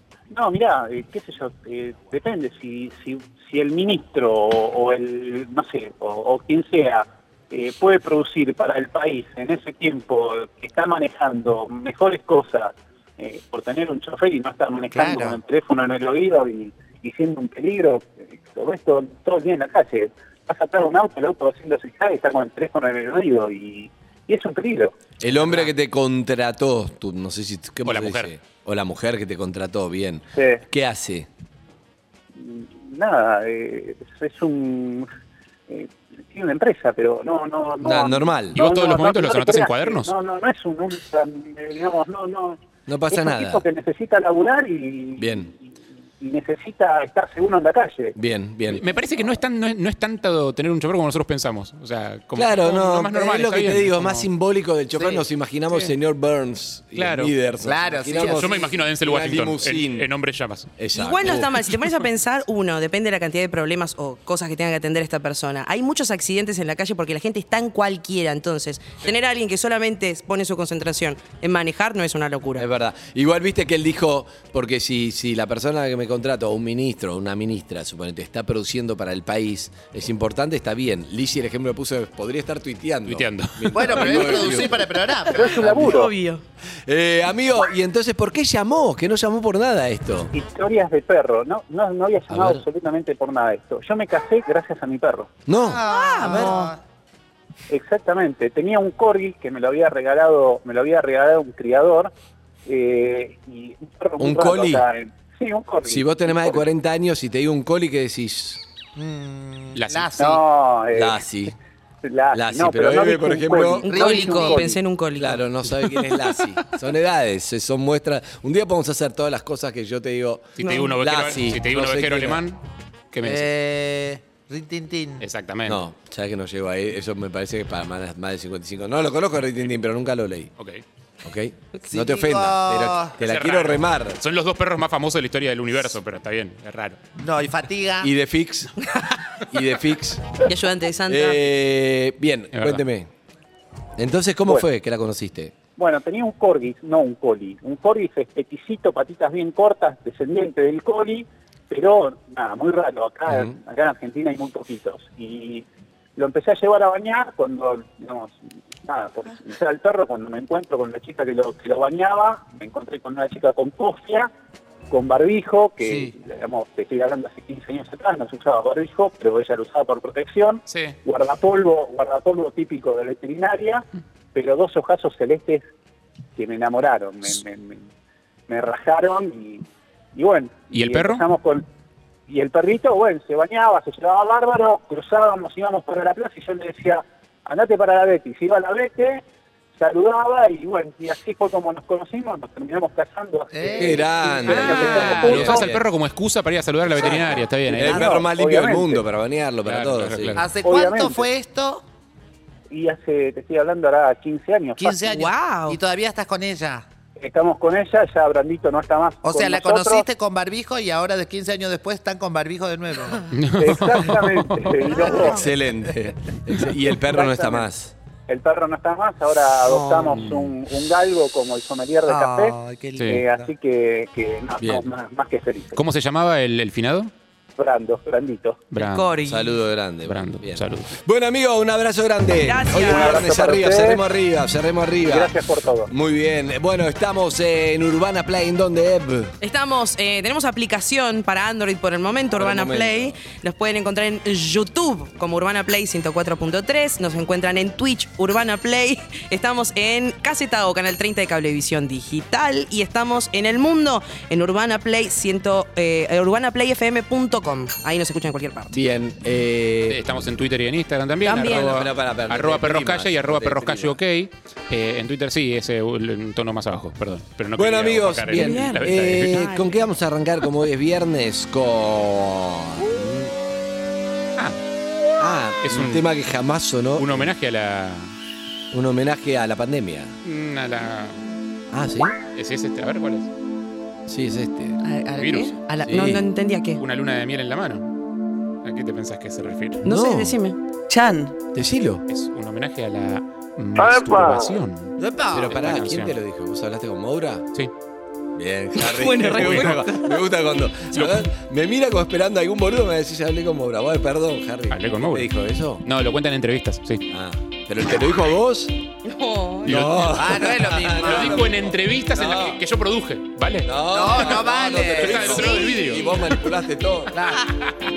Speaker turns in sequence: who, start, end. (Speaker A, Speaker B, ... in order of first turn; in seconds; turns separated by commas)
Speaker A: 0.3-25.0, Speaker B: 14.9-15.4, Speaker C: 25.2-31.3, Speaker D: 25.4-25.7, Speaker D: 27.9-28.3, Speaker A: 30.4-30.6, Speaker A: 32.4-35.1, Speaker A: 35.7-45.6, Speaker C: 37.8-38.6, Speaker D: 38.5-40.1, Speaker C: 42.9-43.6, Speaker C: 45.2-45.5, Speaker A: 46.2-48.1, Speaker C: 48.2-48.8, Speaker D: 48.7-54.3, Speaker C: 52.4-60.1, Speaker B: 54.9-55.2, Speaker D: 57.0-57.3, Speaker B: 57.6-58.8, Speaker D: 58.2-60.7, Speaker C: 60.8-61.7, Speaker E: 60.9-72.7, Speaker C: 72.6-84.9, Speaker D: 83.1-84.3, Speaker B: 83.7-85.5, Speaker E: 85.3-86.4, Speaker A: 85.3-86.1, Speaker C: 85.5-86.1, Speaker C: 86.9-90.3, Speaker A: 90.3-95.3, Speaker C: 92.3-92.6, Speaker C: 95.5-96.6, Speaker B: 95.6-96.8, Speaker E: 95.8-96.7, Speaker A: 97.7-102.1, Speaker A: 102.7-106.6, Speaker C: 104.2-104.9, Speaker C: 105.8-108.6, Speaker B: 109.0-110.4, Speaker D: 109.8-110.1, Speaker A: 110.2-111.2, Speaker C: 110.9-111.5, Speaker A: 112.0-114.8, Speaker C: 112.3-113.9, Speaker E: 113.8-116.1, Speaker B: 113.8-114.6, Speaker C: 115.2-122.4, Speaker D: 120.6-122.6, Speaker E: 120.6-120.9, Speaker D: 123.1-123.5, Speaker B: 123.2-125.3, Speaker D: 125.2-125.8, Speaker C: 125.7-130.5, Speaker C: 131.2-134.2, Speaker B: 131.9-133.1, Speaker D: 133.2-137.0, Speaker B: 137.2-138.1, Speaker C: 138.0-138.8, Speaker C: 139.5-140.4, Speaker E: 140.4-141.4, Speaker C: 141.1-143.1, Speaker D: 142.5-142.8, Speaker C: 144.0-145.5, Speaker A: 145.8-155.7, Speaker C: 153.3-153.6, Speaker A: 156.2-164.3, Speaker A: 164.9-175.6, Speaker D: 170.7-171.0, Speaker A: 176.4-177.8, Speaker A: 178.5-179.6, Speaker A: 180.2-181.6, Speaker D: 180.7-181.2, Speaker A: 182.3-189.2, Speaker A: 189.8-195.7, Speaker B: 193.5-194.9, Speaker C: 193.8-195.9, Speaker D: 194.5-198.1, Speaker C: 197.0-200.4, Speaker B: 197.1-197.4, Speaker A: 197.2-199.0, Speaker D: 199.7-200.5, Speaker B: 200.4-201.8, Speaker A: 200.6-201.3, Speaker A: 202.7-205.0, Speaker B: 204.8-206.9, Speaker E: 205.0-205.8, Speaker A: 207.2-210.1, Speaker B: 209.2-213.3, Speaker D: 213.3-214.7, Speaker A: 213.6-215.5, Speaker E: 214.9-215.4, Speaker B: 215.0-215.3, Speaker C: 215.1-217.9, Speaker A: 217.0-217.7, Speaker A: 218.3-225.8, Speaker E: 219.6-220.2, Speaker D: 220.2-220.6, Speaker B: 222.1-223.5, Speaker D: 223.0-223.2, Speaker C: 224.6-224.9, Speaker D: 225.8-227.1, Speaker A: 227.6-228.7, Speaker D: 228.7-229.1, Speaker E: 228.8-229.5, Speaker C: 229.3-235.4, Speaker D: 230.1-231.0, Speaker E: 232.4-233.3, Speaker A: 232.7-234.0, Speaker A: 235.0-235.9, Speaker C: 235.9-239.4, Speaker E: 239.4-258.8, Speaker C: 242.4-243.2, Speaker C: 258.7-260.3, Speaker D: 259.9-269.4, Speaker E: 261.2-261.8, Speaker C: 261.4-264.0, Speaker C: 267.6-273.3, Speaker E: 268.3-269.8, Speaker C: 275.2-277.3, Speaker D: 275.6-276.0, Speaker D: 277.0-278.1, Speaker C: 278.7-280.2, Speaker D: 280.2-281.2, Speaker C: 281.7-282.1, Speaker D: 282.3-283.3, Speaker C: 284.1-284.8, Speaker E: 284.9-286.8, Speaker B: 285.1-285.6, Speaker D: 285.2-285.6, Speaker C: 285.8-286.3, Speaker D: 286.8-287.9, Speaker D: 288.6-289.8, Speaker C: 289.8-290.4, Speaker E: 289.8-291.3, Speaker C: 291.5-292.0, Speaker D: 292.1-296.2, Speaker B: 295.0-295.6, Speaker C: 295.3-297.5, Speaker C: 298.4-305.9, Speaker E: 298.8-300.2, Speaker D: 299.3-299.9, Speaker D: 300.9-301.3, Speaker D: 304.7-305.3, Speaker D: 305.8-307.1, Speaker C: 307.1-308.8, Speaker E: 309.1-309.8, Speaker C: 309.6-312.6, Speaker D: 309.6-310.5, Speaker B: 310.0-311.5, Speaker D: 311.0-314.4, Speaker C: 313.6-317.2, Speaker B: 313.9-315.6, Speaker D: 314.9-316.1, Speaker B: 317.1-317.5